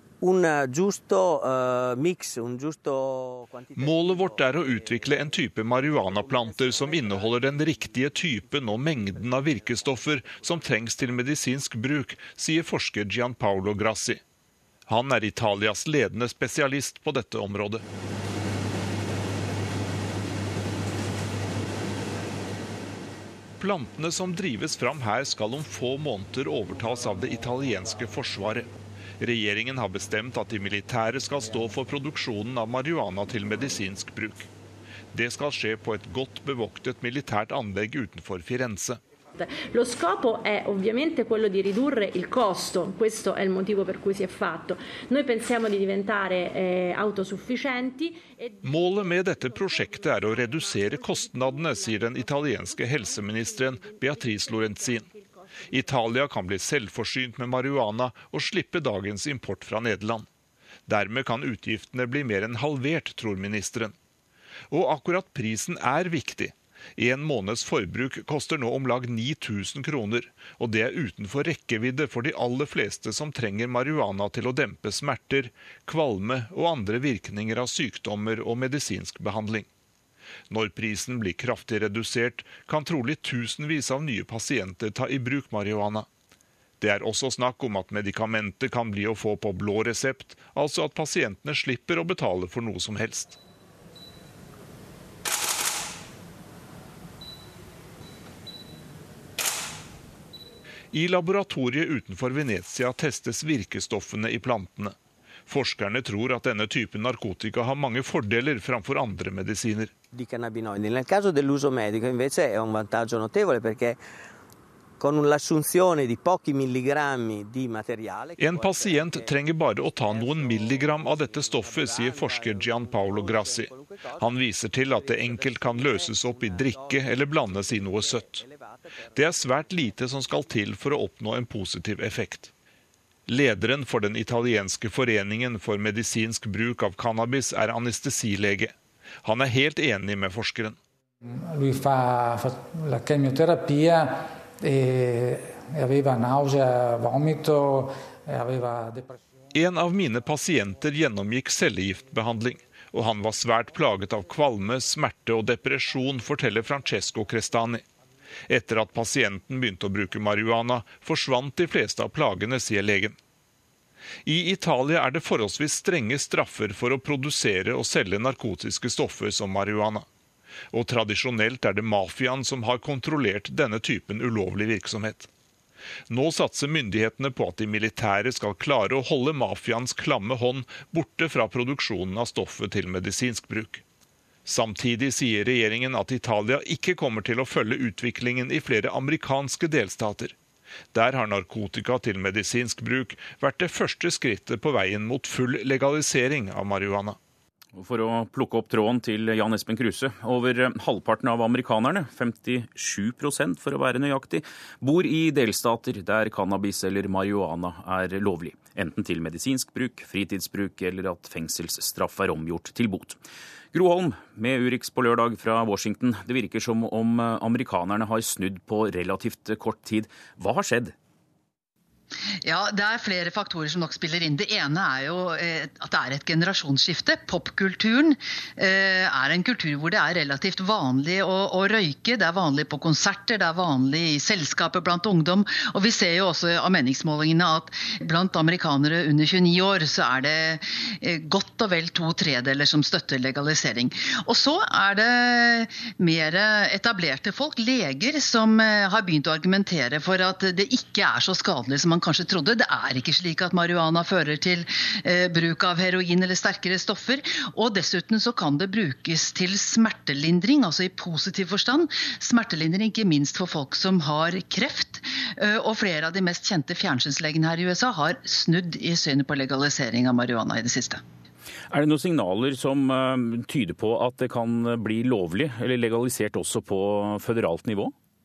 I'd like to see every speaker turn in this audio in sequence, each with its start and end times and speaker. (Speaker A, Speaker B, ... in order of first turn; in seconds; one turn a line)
Speaker A: 0.2-4.3
Speaker B: 3.8-14.2
Speaker B: 14.9-17.9
Speaker B: 23.6-28.7
Speaker B: 29.2-34.5
Speaker B: 35.1-39.0
Speaker C: 39.4-56.1
Speaker B: 48.6-55.1
Speaker B: 55.7-60.3
Speaker B: 60.9-64.0
Speaker B: 64.7-79.7
Speaker B: 80.5-86.1
Speaker B: 86.8-93.4
Speaker B: 100.9-105.0
Speaker B: 105.5-109.9
Speaker A: 110.1-114.0
Speaker A: 115.0-119.2
Speaker B: 118.4-128.5
Speaker B: 129.1-132.5
Speaker B: 133.3-140.8
Speaker D: 141.3-149.2
Speaker B: 149.5-157.8
Speaker B: 158.5-163.2
Speaker B: 164.2-170.1
Speaker B: 170.7-175.3
Speaker B: 176.1-183.8
Speaker B: 184.5-190.3
Speaker B: 190.9-197.2
Speaker E: 197.8-213.2
Speaker E: 213.7-220.9
Speaker F: 222.4-271.0
Speaker E: 271.7-277.9